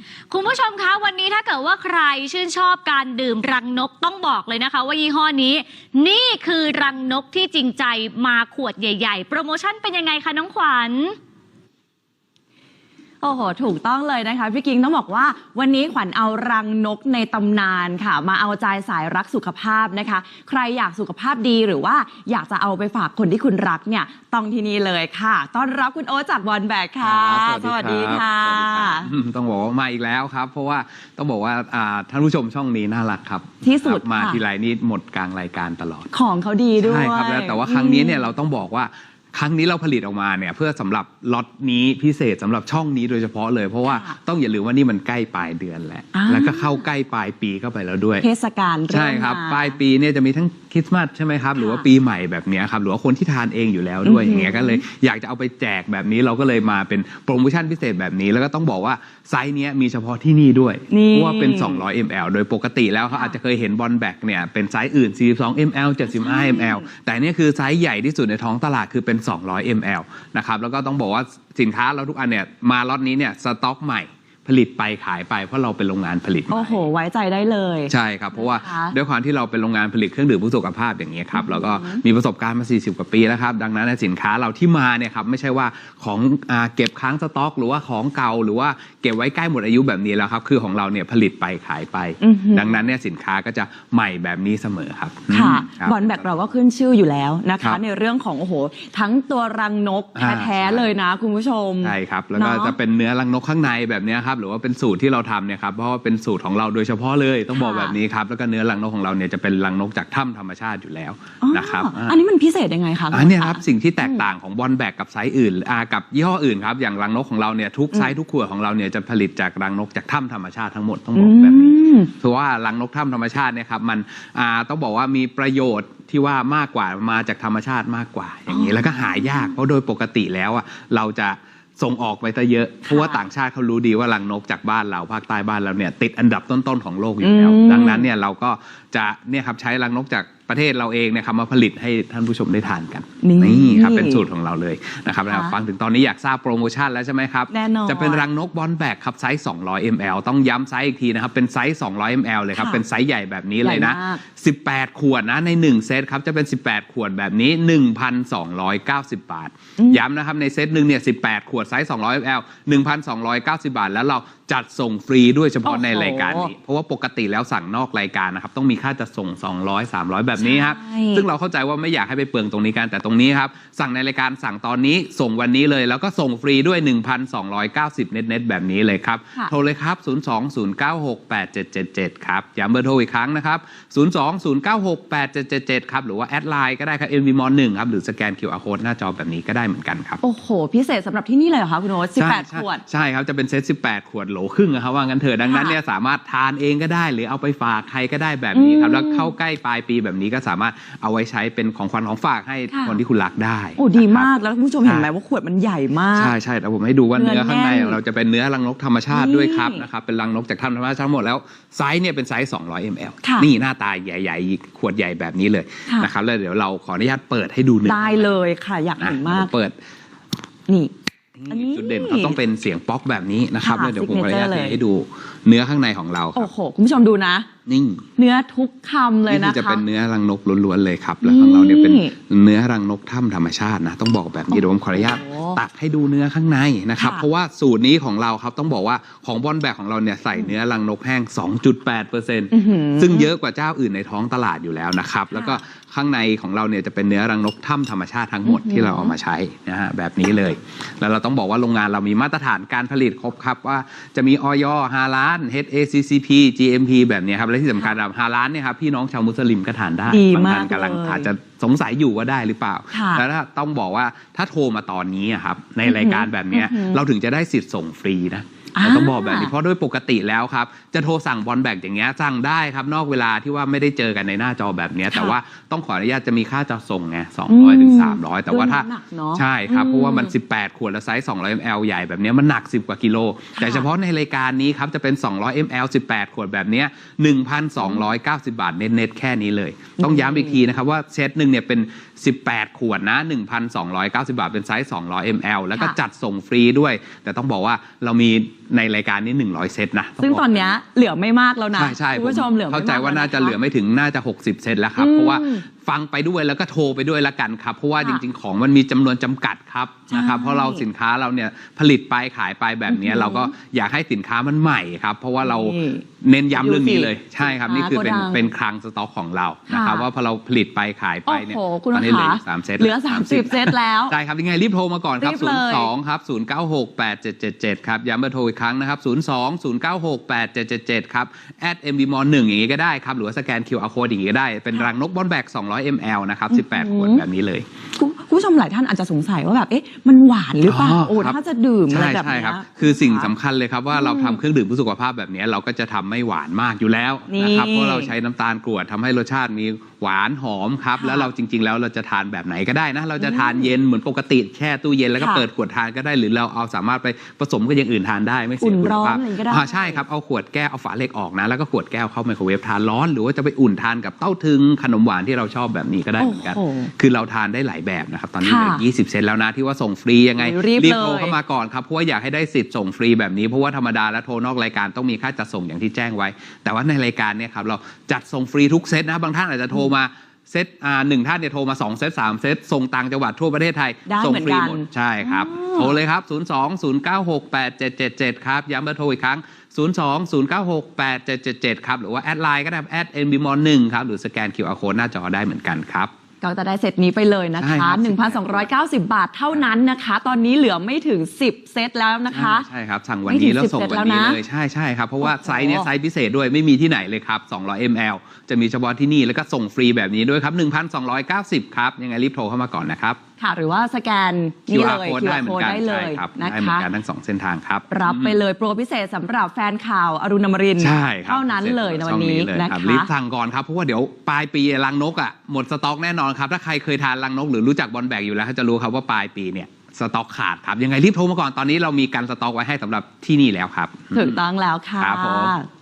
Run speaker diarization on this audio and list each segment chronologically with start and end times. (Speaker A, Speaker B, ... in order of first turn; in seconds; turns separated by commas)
Speaker A: 0.3-11.2, Speaker B: 13.2-29.1, Speaker C: 27.0-36.1, Speaker B: 33.6-34.4, Speaker B: 36.1-38.3, Speaker C: 36.8-48.2, Speaker B: 43.8-44.1, Speaker B: 46.1-46.8, Speaker B: 48.2-49.8, Speaker C: 48.9-76.8, Speaker B: 51.5-51.8, Speaker B: 54.0-54.8, Speaker B: 60.9-61.8, Speaker B: 66.1-66.8, Speaker B: 76.5-78.9, Speaker C: 77.9-96.5, Speaker B: 81.3-82.0, Speaker B: 92.2-92.8, Speaker B: 95.3-102.8, Speaker C: 100.2-100.9, Speaker C: 101.8-112.2, Speaker B: 107.5-108.0, Speaker B: 111.4-114.2, Speaker C: 113.1-190.2, Speaker B: 121.1-122.1, Speaker B: 128.5-129.4, Speaker B: 132.9-133.2, Speaker B: 137.2-138.1, Speaker B: 143.2-144.2, Speaker B: 145.3-145.6, Speaker B: 147.5-148.2, Speaker B: 152.5-152.8, Speaker B: 153.6-154.2, Speaker B: 159.8-160.0, Speaker B: 165.6-166.5, Speaker B: 170.4-171.2, Speaker B: 190.2-192.8, Speaker C: 192.2-205.1, Speaker B: 195.4-195.8, Speaker B: 198.5-199.3, Speaker B: 202.7-203.0, Speaker B: 203.8-206.3, Speaker C: 206.1-218.3, Speaker B: 207.1-208.0, Speaker B: 209.1-209.8, Speaker B: 213.2-213.5, Speaker B: 217.8-219.5, Speaker C: 219.0-219.8, Speaker B: 220.7-220.9, Speaker C: 221.4-226.5, Speaker B: 221.5-222.4, Speaker B: 223.6-224.8, Speaker B: 226.3-227.5, Speaker C: 227.7-228.0, Speaker B: 228.2-229.8, Speaker C: 229.3-300.7, Speaker B: 231.2-232.1, Speaker B: 234.5-235.6, Speaker B: 237.0-237.2, Speaker B: 242.5-243.3, Speaker B: 245.3-245.6, Speaker B: 248.4-249.1, Speaker B: 260.1-261.3, Speaker B: 262.9-263.2, Speaker B: 265.8-267.0, Speaker B: 268.7-269.5, Speaker B: 275.1-275.4, Speaker B: 277.5-280.3, Speaker B: 283.6-283.9, Speaker B: 290.0-290.6, Speaker B: 300.2-303.6, Speaker C: 301.7-337.6, Speaker B: 305.0-305.6, Speaker B: 308.0-308.2, Speaker B: 310.1-310.8, Speaker B: 312.9-313.5, Speaker B: 315.4-318.4, Speaker B: 319.7-320.1, Speaker B: 321.3-324.1, Speaker B: 325.2-325.9, Speaker B: 336.5-337.2, Speaker B: 337.9-343.3, Speaker C: 340.6-341.4, Speaker C: 341.9-396.1, Speaker B: 343.9-344.4, Speaker B: 347.3-348.1, Speaker B: 351.0-351.3, Speaker B: 353.2-353.7, Speaker B: 355.2-355.5, Speaker B: 358.6-360.0, Speaker B: 366.2-366.9, Speaker B: 368.4-368.8, Speaker B: 370.4-371.4, Speaker B: 384.1-385.9, Speaker B: 396.4-402.7, Speaker C: 397.6-398.7, Speaker C: 399.5-399.8, Speaker C: 402.3-413.2, Speaker B: 403.3-404.4, Speaker B: 405.2-405.9, Speaker B: 413.4-416.9, Speaker C: 414.7-418.4, Speaker B: 417.9-423.1, Speaker C: 420.8-434.4, Speaker B: 434.1-435.7, Speaker C: 435.0-435.5